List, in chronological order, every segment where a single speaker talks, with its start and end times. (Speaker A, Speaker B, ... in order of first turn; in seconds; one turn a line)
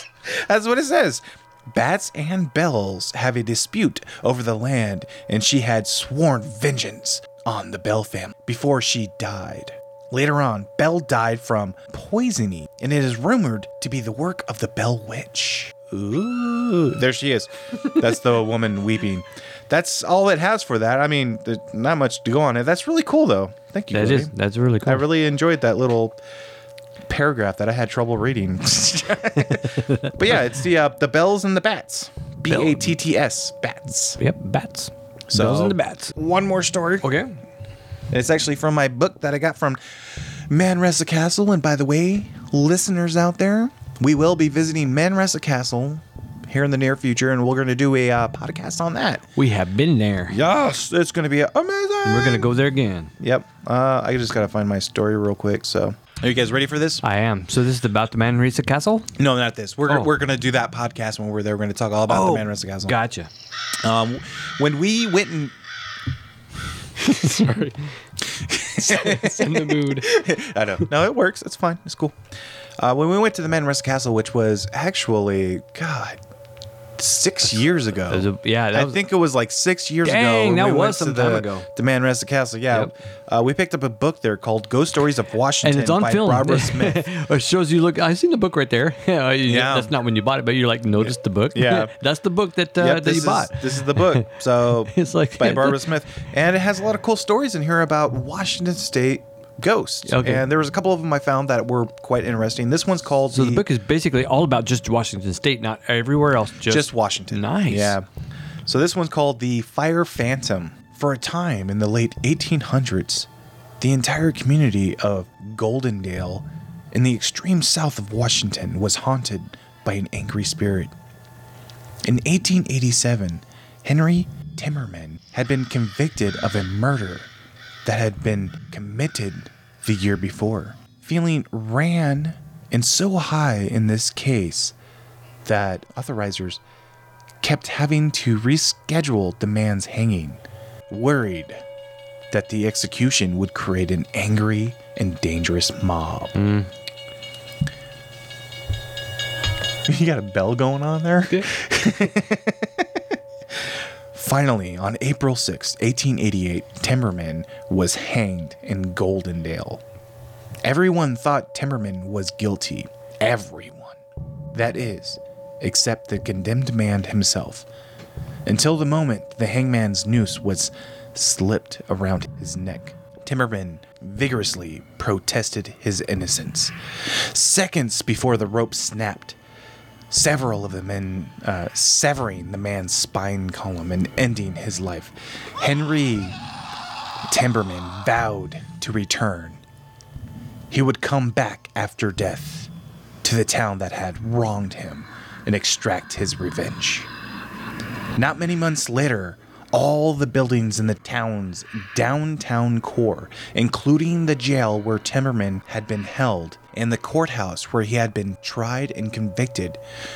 Speaker A: 0.3-24.3
Speaker B: 23.9-25.1
Speaker A: 24.9-26.2
Speaker A: 27.1-34.2
Speaker B: 29.8-30.1
Speaker B: 32.5-33.0
Speaker B: 34.2-36.1
Speaker A: 35.3-37.1
Speaker B: 37.0-37.3
Speaker A: 38.1-49.2
Speaker B: 49.4-50.4
Speaker A: 50.3-52.5
Speaker B: 52.0-53.1
Speaker A: 53.2-57.0
Speaker B: 57.0-59.1
Speaker A: 59.2-63.0
Speaker B: 59.9-60.1
Speaker B: 62.1-63.3
Speaker A: 63.8-65.5
Speaker C: 67.1-67.8
Speaker A: 68.2-72.2
Speaker C: 68.8-70.1
Speaker A: 72.8-76.2
Speaker A: 77.0-87.1
Speaker B: 78.1-79.0
Speaker B: 80.0-81.7
Speaker B: 85.6-94.3
Speaker A: 89.5-90.0
Speaker A: 91.1-91.9
Speaker A: 92.8-103.7
Speaker B: 94.9-95.9
Speaker B: 100.1-100.5
Speaker B: 103.3-108.0
Speaker A: 106.7-108.1
Speaker A: 108.7-113.3
Speaker A: 113.8-120.9
Speaker A: 122.0-127.3
Speaker A: 127.8-134.8
Speaker A: 135.4-136.6
Speaker A: 137.4-141.6
Speaker A: 142.3-146.4
Speaker B: 146.4-146.7
Speaker A: 149.9-153.0
Speaker A: 154.1-159.8
Speaker A: 160.6-164.0
Speaker A: 164.5-167.7
Speaker A: 168.5-179.4
Speaker A: 180.1-186.4
Speaker A: 187.3-189.6
Speaker A: 190.7-192.7
Speaker A: 193.2-197.1
Speaker A: 198.2-209.8